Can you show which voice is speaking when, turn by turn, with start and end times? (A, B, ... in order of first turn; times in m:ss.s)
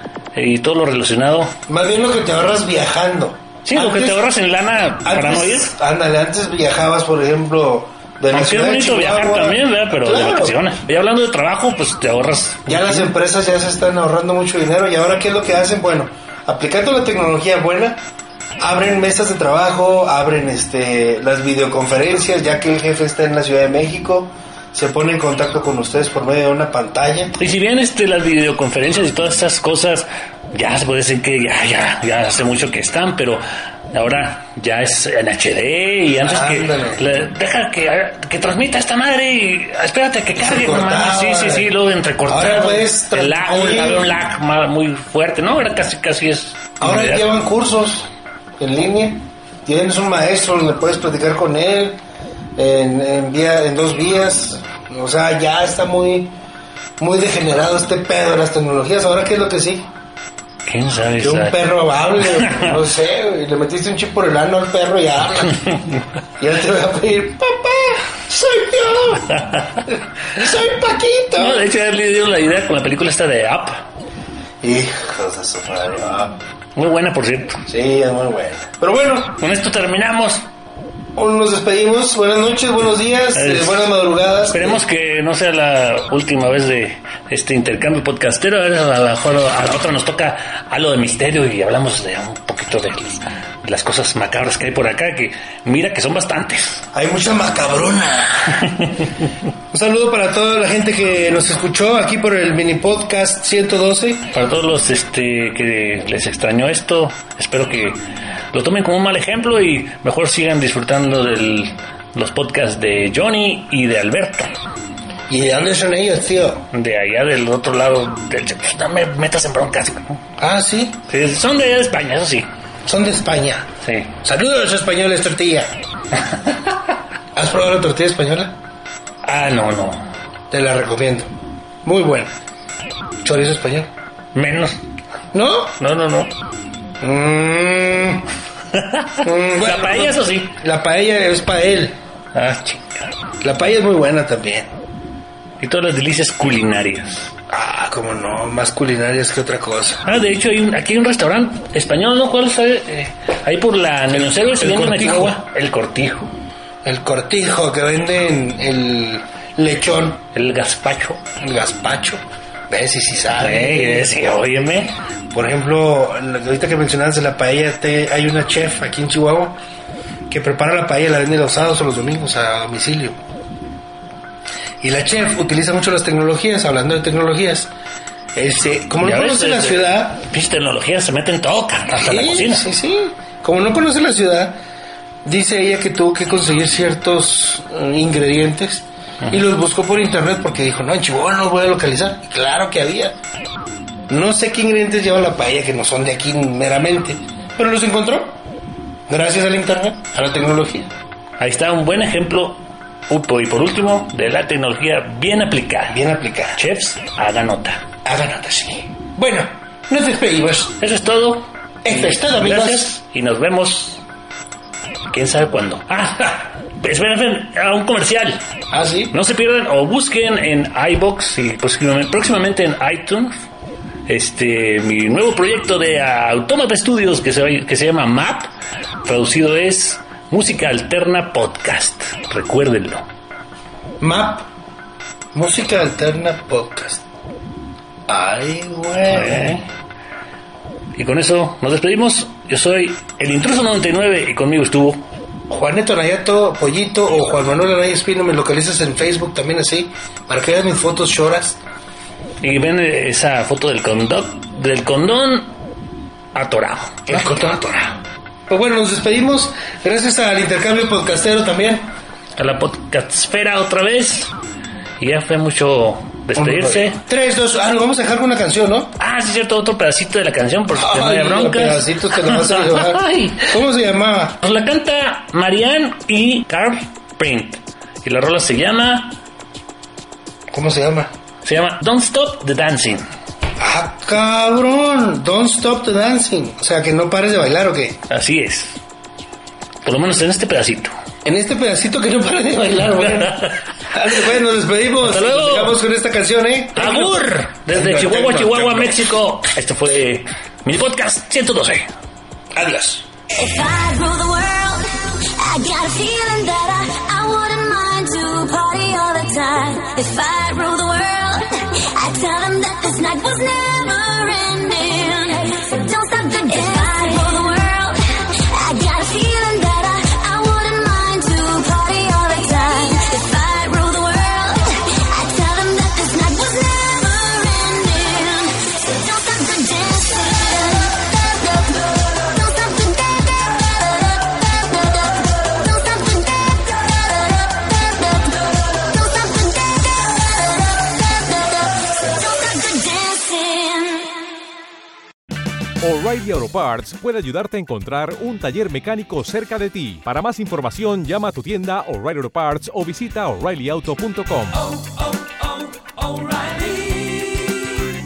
0:00.3-0:01.6 A
0:01.7-0:04.2 B
0:03.6-0:05.7 A
0:05.0-0:10.5 B
0:08.3-0:13.1 A
0:12.7-0:18.0 B
0:18.6-0:27.3 B
0:27.4-0:47.2 A
0:36.2-0:37.0 B
0:40.4-0:41.7 B
0:42.3-0:44.0 B
0:46.8-0:48.1 B
0:48.6-0:52.0 B
0:52.6-0:56.3 B
0:57.0-0:59.9 B
1:00.7-1:01.6 A
1:01.2-1:05.7 B
1:02.2-1:02.7 A
1:06.4-1:11.6 B
1:09.4-1:09.8 A
1:11.4-1:13.8 A
1:14.6-1:16.4 B
1:16.8-1:17.6 A
1:17.7-1:19.4 B
1:19.4-1:20.4 A
1:21.2-1:24.8 B
1:23.3-1:23.9 A
1:24.5-1:36.8 A
1:36.9-1:38.7 B
1:39.7-1:44.3 B
1:44.3-1:48.0 A
1:48.5-1:54.5 A
1:55.3-1:56.6 B
1:56.7-2:00.2 A
2:00.4-2:01.0 B
2:01.1-2:02.5 A
2:02.8-2:03.7 B
2:03.8-2:04.1 A
2:04.2-2:05.7 B
2:07.3-2:08.5 B
2:09.2-2:10.1 A
2:10.5-2:11.3 B
2:11.8-2:12.3 B
2:13.2-2:13.9 B
2:14.3-2:14.8 A
2:15.3-2:15.7 B
2:15.8-2:16.3 A
2:17.0-2:18.2 B
2:18.7-2:20.5 A
2:19.2-2:22.0 B
2:22.3-2:23.1 A
2:23.4-2:24.7 B
2:25.6-2:27.3 A
2:27.5-2:30.0 B
2:30.0-2:36.3 A
2:34.1-2:35.3 B
2:36.8-2:40.2 B
2:40.3-2:41.2 A
2:41.4-2:44.1 B
2:43.4-2:44.9 A
2:45.3-2:49.6 B
2:50.3-2:53.2 B
2:54.8-2:57.7 B
2:58.4-3:00.2 B
2:59.0-3:02.6 A
3:01.9-3:04.6 B
3:05.2-3:13.2 B
3:14.1-3:18.4 B
3:19.1-3:20.9 B
3:21.4-3:26.0 A
3:25.9-3:26.6 B
3:26.5-3:27.8 A
3:28.0-3:30.7 B
3:30.8-3:34.0 A
3:31.8-3:32.9 B
3:35.1-3:38.4 A
3:38.7-3:39.1 B
3:39.1-3:43.4 A
3:44.1-3:48.5 A
3:49.0-3:53.0 A
3:54.0-3:54.5 B
3:55.3-3:57.0 B
3:58.1-3:59.6 B
3:59.1-3:59.7 A
4:01.0-4:05.0 A
4:05.5-4:11.6 B
4:12.4-4:15.5 A
4:16.3-4:17.4 A
4:17.1-4:21.9 B
4:22.4-4:24.3 A
4:25.0-4:27.0 A
4:26.4-4:28.9 B
4:29.0-4:33.5 A
4:30.8-4:34.4 B
4:34.4-4:39.2 A
4:40.5-4:41.1 B
4:41.4-4:43.0 A
4:43.6-4:48.0 B
4:48.1-4:48.8 A
4:49.8-4:50.9 A
4:51.2-4:57.2 B
4:53.0-4:53.4 A
4:55.0-4:55.8 A
4:56.8-5:01.9 A
4:57.7-4:59.1 B
5:02.5-5:03.0 B
5:03.4-5:44.2 C
5:45.8-5:54.6 D
5:54.6-5:57.7 E